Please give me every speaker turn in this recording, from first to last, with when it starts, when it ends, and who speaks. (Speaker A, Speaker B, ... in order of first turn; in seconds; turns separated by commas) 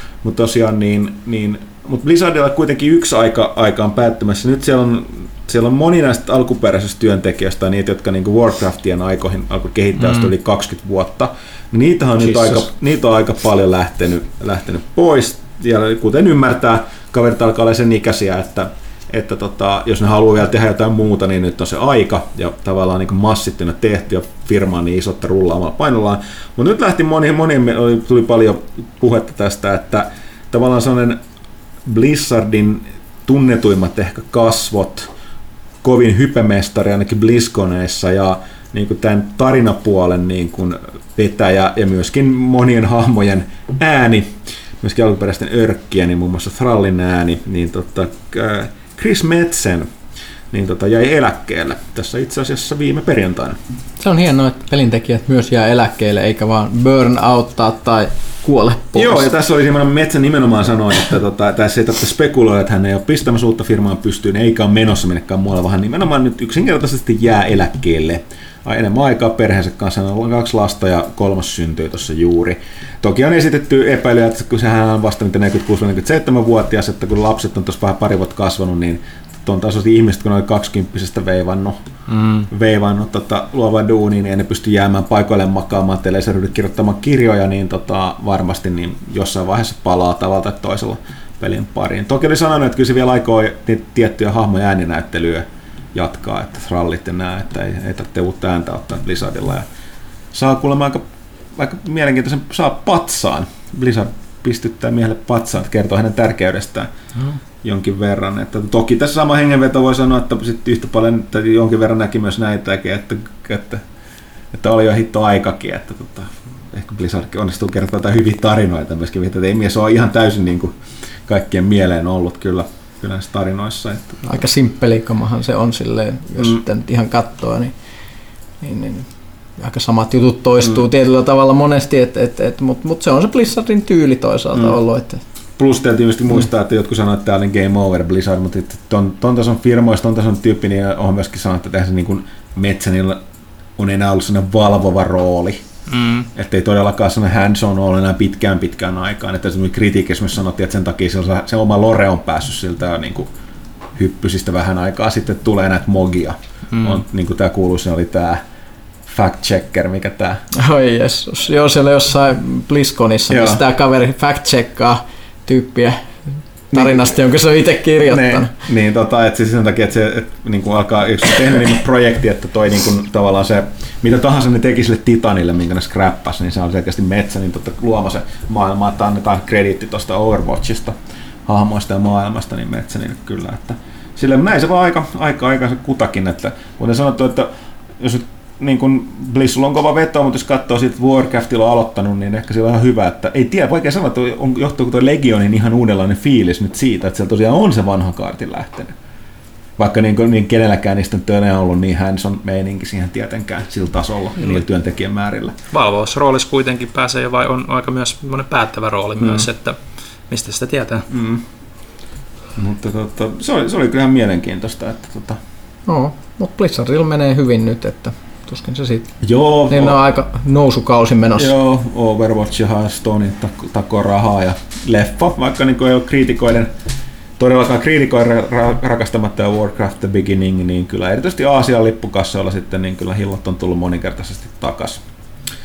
Speaker A: 0.2-31.2, Speaker A: 31.9-35.1, Speaker A: 35.8-49.9, Speaker A: 50.5-53.6, Speaker B: 54.0-59.3, Speaker A: 58.9-81.8, Speaker C: 82.1-82.5, Speaker A: 82.5-99.7, Speaker A: 100.3-106.9, Speaker A: 107.6-113.8, Speaker A: 114.5-120.8, Speaker A: 121.3-124.4, Speaker B: 124.3-127.7, Speaker B: 128.6-135.2, Speaker A: 135.6-143.2, Speaker A: 143.8-145.6, Speaker C: 145.9-146.3, Speaker A: 146.3-153.3, Speaker A: 154.0-158.4, Speaker A: 159.1-160.4, Speaker B: 160.5-166.2, Speaker A: 163.3-163.6, Speaker A: 166.7-167.1, Speaker B: 166.7-168.5, Speaker A: 168.1-180.9, Speaker A: 181.5-187.5, Speaker A: 188.0-198.9, Speaker A: 199.8-205.6, Speaker C: 205.7-209.8, Speaker A: 209.2-209.5, Speaker C: 210.3-211.1, Speaker A: 211.1-211.4, Speaker A: 212.6-215.4, Speaker B: 215.9-219.1, Speaker A: 219.2-220.0, Speaker B: 219.7-221.5, Speaker A: 221.4-226.7, Speaker A: 227.4-235.0